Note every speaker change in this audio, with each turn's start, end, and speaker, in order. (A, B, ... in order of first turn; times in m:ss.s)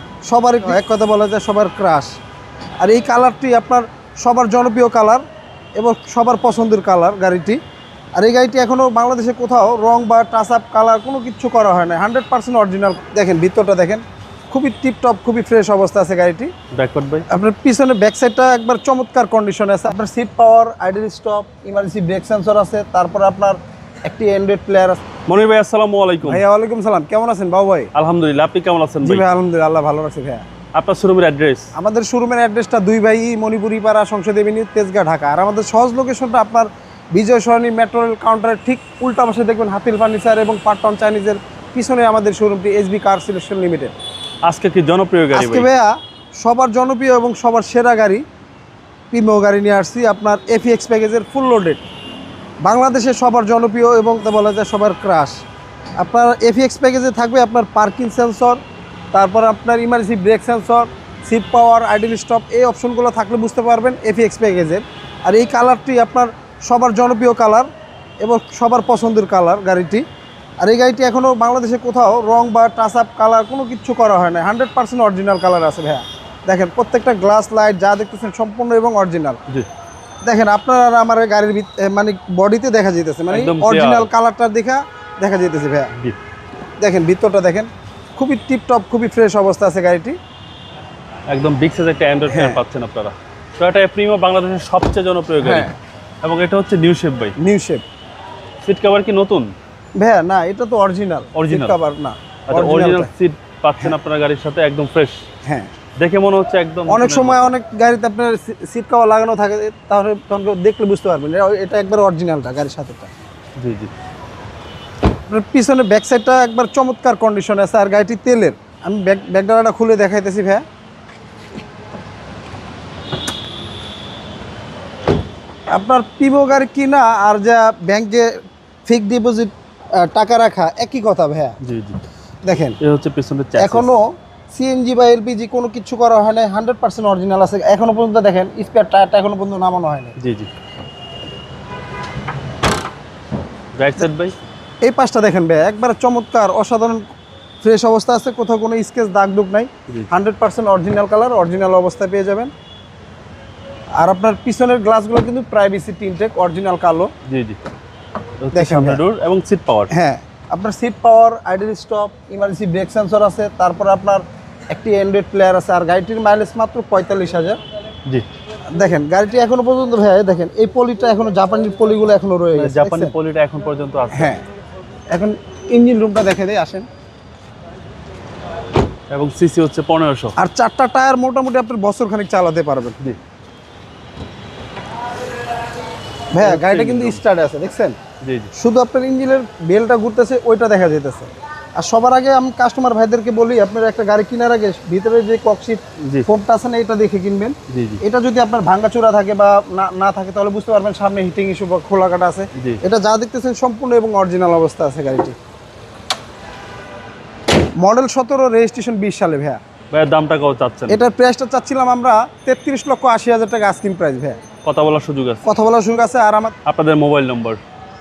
0:00.2-0:02.1 A
0:02.8-0:05.2 A
0:05.8-0:07.6 A
0:08.2-0:16.5 A
0:16.7-0:17.2 B
0:17.3-0:25.0 A
0:25.3-0:26.4 B
0:26.2-0:27.9 A
0:27.9-0:29.3 B
0:29.0-0:30.4 A
0:30.7-0:31.7 B
0:31.7-0:43.9 A
0:44.4-0:45.7 B
0:45.3-0:48.2 A
0:49.1-0:51.8 A
0:52.6-0:55.4 A
0:56.0-0:58.6 A
0:59.1-1:07.7 A
1:08.2-1:10.0 A
1:10.6-1:19.4 A
1:20.2-1:25.9 A
1:23.3-1:24.1 B
1:26.8-1:30.2 A
1:31.3-1:35.7 B
1:32.3-1:32.6 A
1:35.4-1:35.7 A
1:36.2-1:37.3 B
1:37.4-1:37.8 A
1:38.6-1:39.5 B
1:40.0-1:43.1 A
1:41.3-1:41.8 B
1:42.5-1:45.2 B
1:45.4-1:45.7 A
1:46.0-1:47.5 B
1:46.9-1:53.1 A
1:53.6-1:53.9 B
1:55.3-2:00.6 A
2:05.7-2:11.6 A
2:11.6-2:12.0 B
2:12.4-2:12.8 A
2:12.8-2:13.9 B
2:13.6-2:20.2 A
2:20.2-2:20.5 B
2:23.7-2:24.3 B
2:24.8-2:27.1 A
2:27.6-2:32.5 A
2:34.0-2:37.1 A
2:37.2-2:37.6 B
2:38.4-2:39.9 B
2:38.5-2:39.0 A
2:39.9-2:47.6 A
2:48.7-2:53.1 A
2:52.5-2:54.3 B
2:54.1-2:54.4 A
2:55.1-2:56.9 A
2:59.1-3:00.3 B
3:00.4-3:03.0 A
3:06.3-3:08.0 A
3:06.4-3:07.2 B
3:08.2-3:08.5 B
3:08.5-3:25.4 A
3:17.7-3:18.0 B
3:22.5-3:22.8 B
3:27.8-3:29.6 A
3:29.9-3:31.0 B
3:30.9-3:34.4 A
3:34.6-3:35.5 B
3:35.4-3:36.5 A
3:36.6-3:37.6 B